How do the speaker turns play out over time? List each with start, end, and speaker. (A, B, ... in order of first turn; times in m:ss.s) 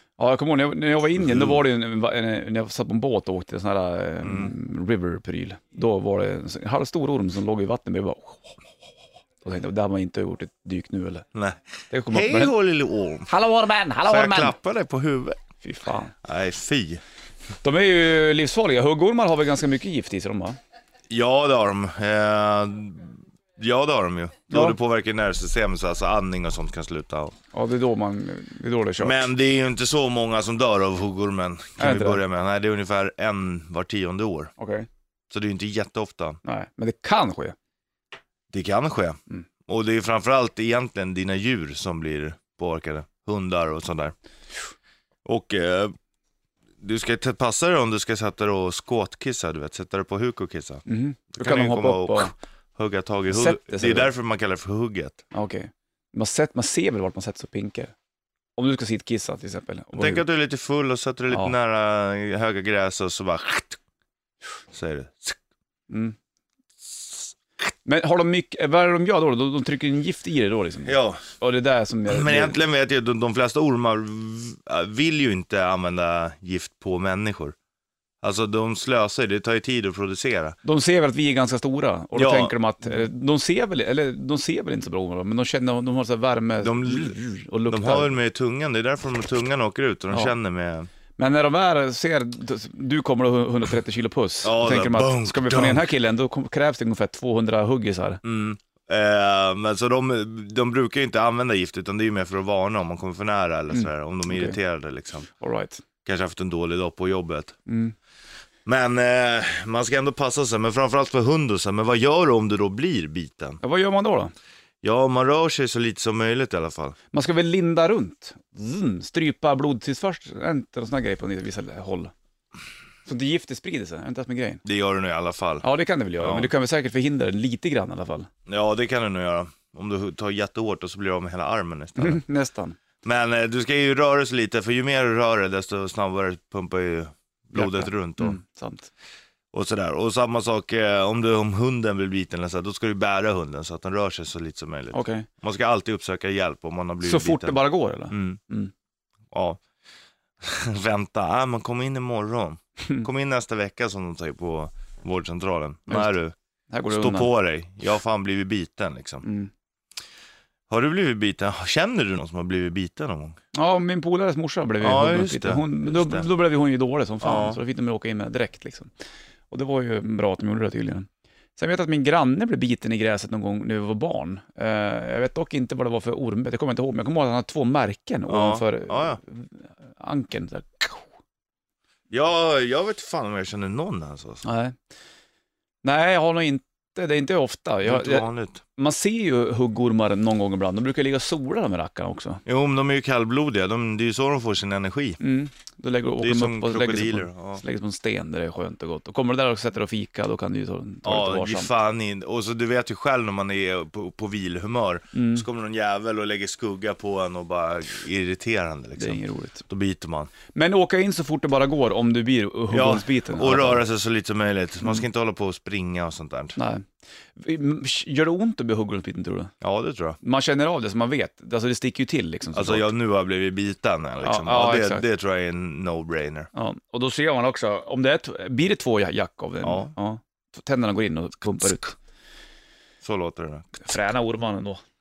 0:00.2-0:08.6 A
0:01.2-0:01.6 B
0:04.2-0:04.5 B
0:09.4-0:11.2 A
0:11.3-0:13.3 B
0:11.9-0:12.5 A
0:13.3-0:14.5 A
0:14.0-0:15.4 B
0:15.6-0:16.1 A
0:16.2-0:17.0 B
0:17.6-0:20.6 A
0:21.1-0:27.3 B
0:24.5-0:24.8 A
0:27.5-0:29.2 A
0:29.0-0:34.5 B
0:31.8-0:32.2 A
0:34.6-0:34.9 A
0:35.3-0:36.4 B
0:36.4-0:37.5 A
0:38.5-0:44.1 B
0:45.2-0:45.9 B
0:46.8-0:55.2 B
0:50.9-0:52.3 A
0:53.3-0:54.1 A
0:55.3-0:57.9 A
0:58.6-1:00.2 A
1:00.0-1:03.8 B
1:04.7-1:05.4 B
1:05.9-1:06.1 A
1:07.8-1:12.6 A
1:10.8-1:11.3 B
1:12.1-1:17.5 B
1:18.2-1:20.6 B
1:20.6-1:28.2 A
1:22.1-1:22.5 B
1:26.6-1:27.2 B
1:27.7-1:30.9 B
1:31.2-1:38.2 A
1:34.4-1:35.9 B
1:38.2-1:45.3 B
1:43.7-1:44.6 A
1:45.4-1:45.8 A
1:46.0-1:47.5 B
1:47.7-1:47.9 A
1:48.6-1:53.6 B
1:53.6-1:54.3 A
1:54.8-1:57.0 B
1:57.1-2:02.1 A
2:03.0-2:04.6 A
2:04.6-2:05.6 B
2:05.6-2:08.3 A
2:06.2-2:06.5 B
2:08.5-2:12.2 B
2:12.0-2:12.8 A
2:13.0-2:18.4 B
2:17.5-2:18.9 A
2:19.5-2:28.4 B
2:24.9-2:25.3 A
2:27.0-2:28.7 A
2:29.3-2:29.6 B
2:30.4-2:36.3 B
2:36.7-2:37.3 A
2:36.9-2:39.2 B
2:39.2-2:39.5 A
2:40.7-2:43.4 B
2:43.5-2:48.9 A
2:44.8-2:46.3 B
2:47.2-2:47.6 B
2:49.5-3:01.1 A
2:58.3-2:59.2 B
3:02.1-3:04.4 B
3:04.4-3:04.7 A
3:05.8-3:12.4 A
3:07.8-3:08.6 B
3:12.4-3:15.2 B
3:15.2-3:21.7 A
3:16.2-3:17.6 B
3:21.0-3:30.3 B
3:25.1-3:25.4 A
3:29.0-3:29.6 A
3:30.5-3:33.8 A
3:32.7-3:36.6 B
3:36.6-3:39.5 A
3:39.6-3:40.2 B
3:40.2-3:42.8 A
3:42.5-3:46.5 B
3:44.2-3:45.0 A
3:46.5-3:51.9 A
3:49.6-3:49.9 B
3:53.0-3:53.8 B
3:53.8-3:54.8 A